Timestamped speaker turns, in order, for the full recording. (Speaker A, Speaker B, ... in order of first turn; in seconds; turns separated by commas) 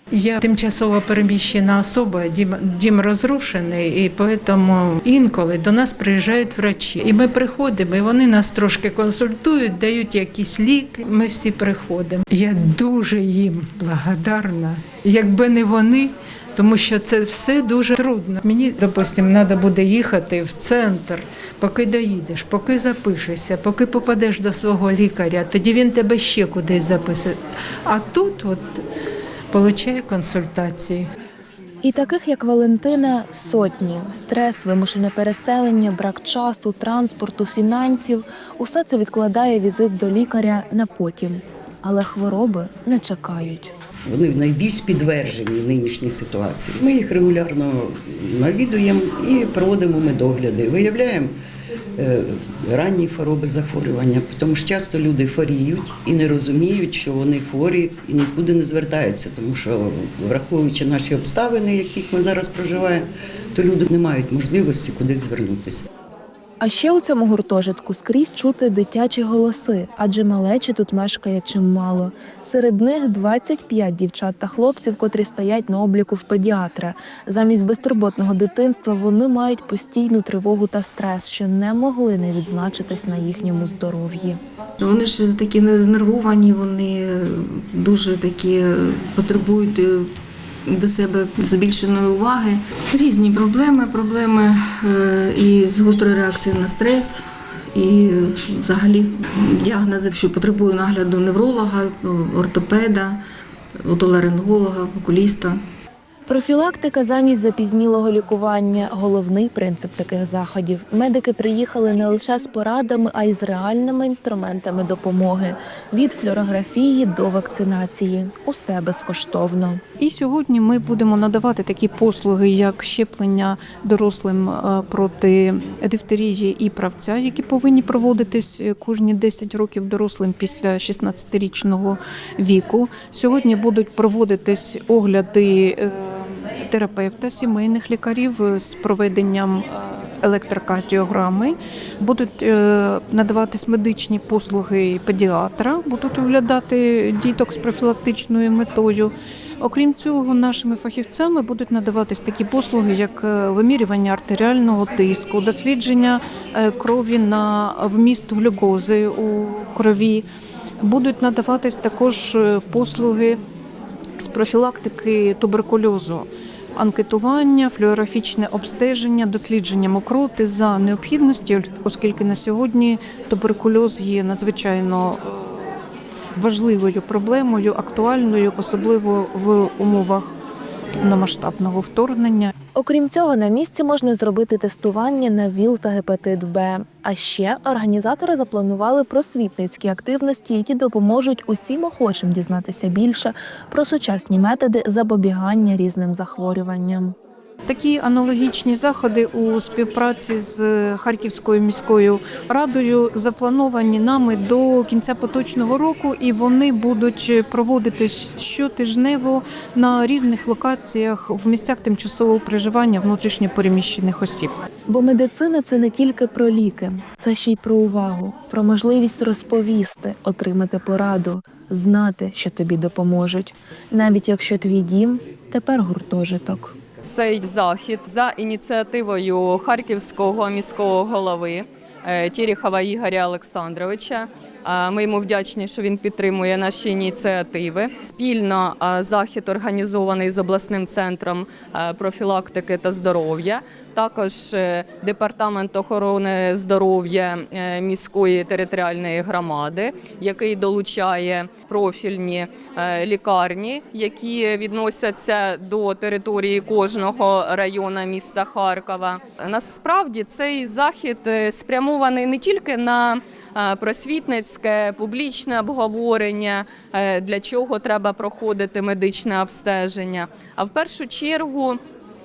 Speaker A: 0.1-28.8, Speaker A: 29.5-31.1, Speaker B: 31.8-43.7, Speaker C: 44.1-51.3, Speaker C: 52.0-65.8, Speaker B: 66.6-84.4, Speaker D: 84.8-90.1, Speaker D: 90.7-103.2, Speaker D: 103.8-105.6, Speaker B: 106.3-119.8, Speaker E: 120.0-160.2, Speaker E: 160.8-163.4, Speaker E: 164.2-175.8, Speaker E: 176.3-180.3, Speaker E: 181.0-182.5, Speaker B: 182.8-197.2, Speaker E: 197.7-214.5, Speaker B: 214.9-226.7, Speaker F: 227.1-271.8